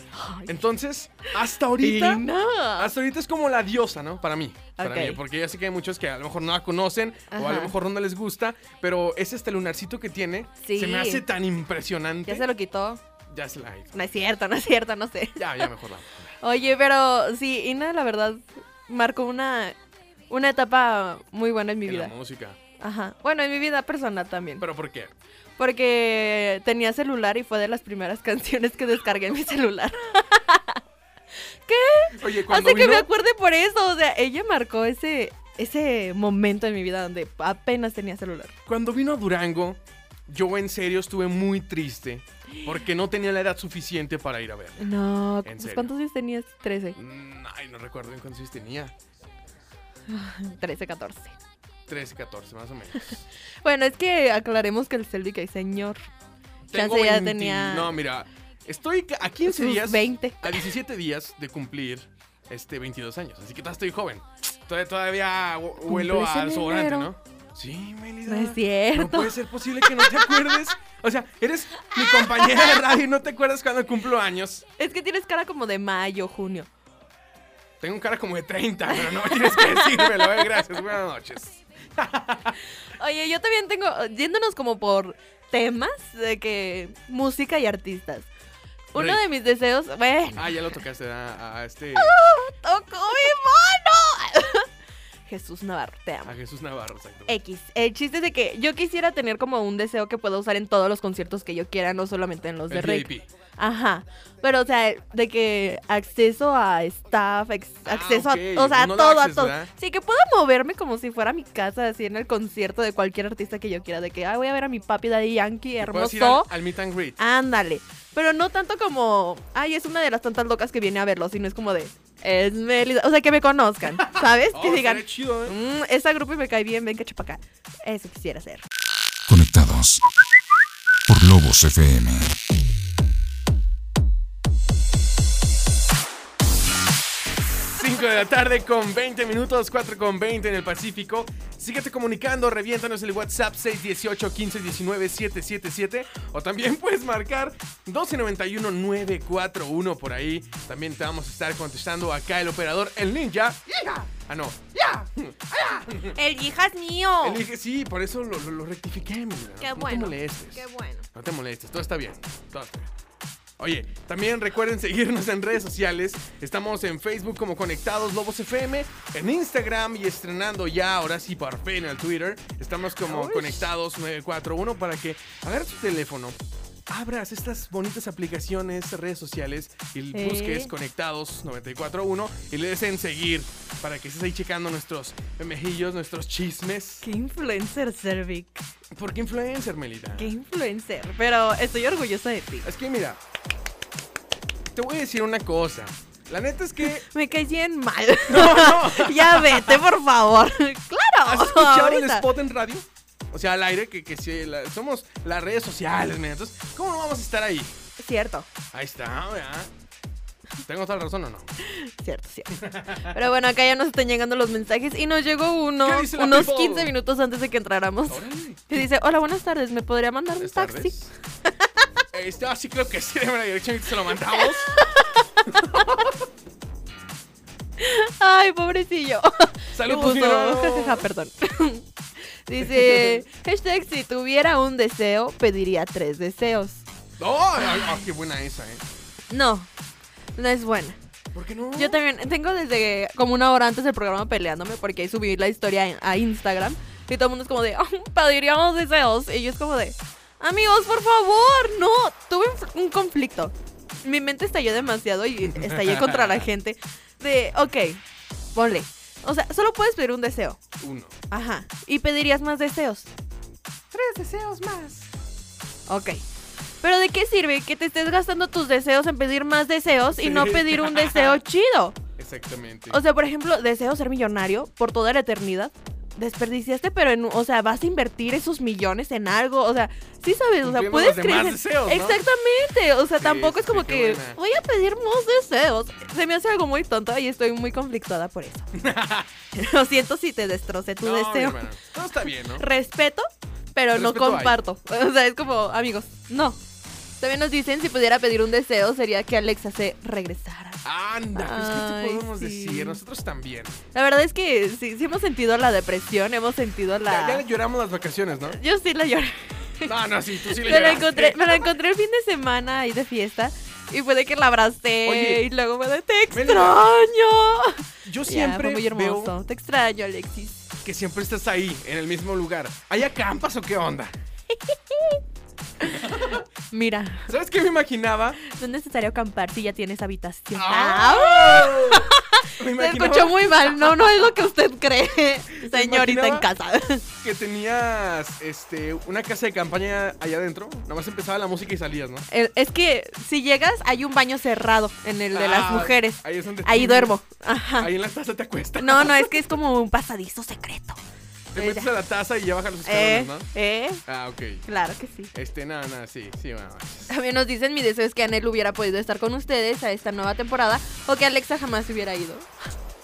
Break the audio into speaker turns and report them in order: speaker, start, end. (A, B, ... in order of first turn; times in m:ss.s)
0:00.1-0:00.5 A
0:00.5-0:02.2 B
0:01.8-0:02.9 A
0:02.8-0:12.4 B
0:04.8-0:05.2 A
0:07.3-0:07.7 A
0:10.6-0:11.2 A
0:12.3-0:13.0 A
0:13.3-0:14.1 B
0:13.9-0:15.7 A
0:15.4-0:16.4 B
0:16.4-0:19.8 A
0:20.3-0:22.1 A
0:21.8-0:22.6 B
0:22.8-0:24.6 A
0:24.6-0:25.1 B
0:25.6-0:30.8 A
0:31.7-0:38.5 A
0:32.2-0:33.1 B
0:38.7-0:44.9 B
0:44.8-0:47.0 A
0:45.4-0:45.9 B
0:47.0-0:48.9 B
0:50.1-0:51.3 A
0:51.9-0:53.2 B
0:53.6-0:56.0 A
0:56.7-1:14.6 B
0:56.7-0:57.9 A
0:59.5-1:00.6 A
1:05.9-1:07.1 A
1:08.2-1:10.3 A
1:12.0-1:12.8 A
1:14.8-1:16.7 A
1:17.8-1:22.6 B
1:18.9-1:20.6 A
1:23.0-1:28.3 A
1:28.9-1:30.5 A
1:28.9-1:29.2 B
1:30.3-1:32.1 B
1:32.0-1:34.7 A
1:35.3-1:36.3 A
1:36.2-1:37.3 B
1:37.3-1:56.5 A
1:42.7-1:43.3 B
1:47.8-1:49.7 B
1:55.8-1:57.2 B
1:57.2-2:08.6 A
2:04.0-2:05.6 B
2:09.3-2:10.0 C
2:11.1-2:12.4 C
2:17.6-2:36.2 B
2:36.1-2:37.4 A
2:37.2-2:42.9 B
2:39.6-2:41.0 A
2:43.6-2:56.4 B
2:53.0-2:53.7 A
2:56.9-3:07.0 B
3:00.1-3:00.7 A
3:07.0-3:08.6 A
3:08.9-3:10.3 B
3:10.2-3:12.7 A
3:12.6-3:13.2 B
3:14.7-3:17.1 B
3:17.0-3:22.3 A
3:18.3-3:19.8 B
3:21.2-3:27.7 B
3:28.0-3:28.5 A
3:28.7-3:29.7 B
3:30.6-3:31.5 B
3:31.6-3:40.9 A
3:32.5-3:33.1 B
3:35.8-3:36.9 B
3:38.1-3:38.9 B
3:40.4-3:41.1 B
3:42.1-3:44.8 B
3:44.7-3:45.9 A
3:45.5-3:46.1 B
3:47.8-3:51.8 A
3:49.7-3:51.0 B
3:52.4-3:56.8 A
3:52.6-3:53.2 B
3:57.2-3:58.8 B
3:57.6-3:58.0 A
3:59.3-3:59.7 A
4:00.4-4:01.0 A
4:01.3-4:02.0 B
4:01.8-4:18.0 A
4:15.5-4:16.5 B
4:18.5-4:20.6 A
4:20.8-4:21.2 B
4:21.3-4:23.1 A
4:23.9-4:25.1 B
4:25.9-4:26.2 A
4:26.8-4:32.0 A
4:30.1-4:31.4 B
4:32.2-4:33.0 B
4:32.9-4:48.7 A
4:40.6-4:42.2 B
4:43.2-4:44.4 B
4:48.7-4:49.3 B
4:49.5-4:51.6 A
4:51.0-4:52.6 B
4:52.6-4:56.6 A
4:53.9-4:54.6 B
4:57.2-5:00.8 A
5:00.8-5:03.8 B
5:01.3-5:03.0 A
5:03.9-5:07.4 A
5:07.1-5:08.6 B
5:08.5-5:09.9 A
5:09.8-5:11.7 B
5:10.5-5:20.6 A
5:15.0-5:15.4 B
5:16.3-5:16.8 B
5:18.0-5:19.3 B
5:20.8-5:24.1 B
5:24.6-5:25.2 A
5:25.8-5:26.1 A
5:25.8-5:26.4 B
5:26.7-5:27.3 A
5:27.3-5:28.4 B
5:28.4-5:37.0 A
5:30.5-5:34.1 B
5:35.5-5:36.5 B
5:37.2-5:42.2 B
5:42.3-5:47.9 A
5:45.3-5:47.1 B
5:47.8-5:49.4 B
5:48.8-5:51.0 A
5:51.5-5:53.5 B
5:51.6-5:51.9 A
5:52.8-5:54.0 A
5:54.0-5:54.6 B
5:54.6-5:55.3 A
5:55.3-5:57.1 B
5:57.1-6:02.5 A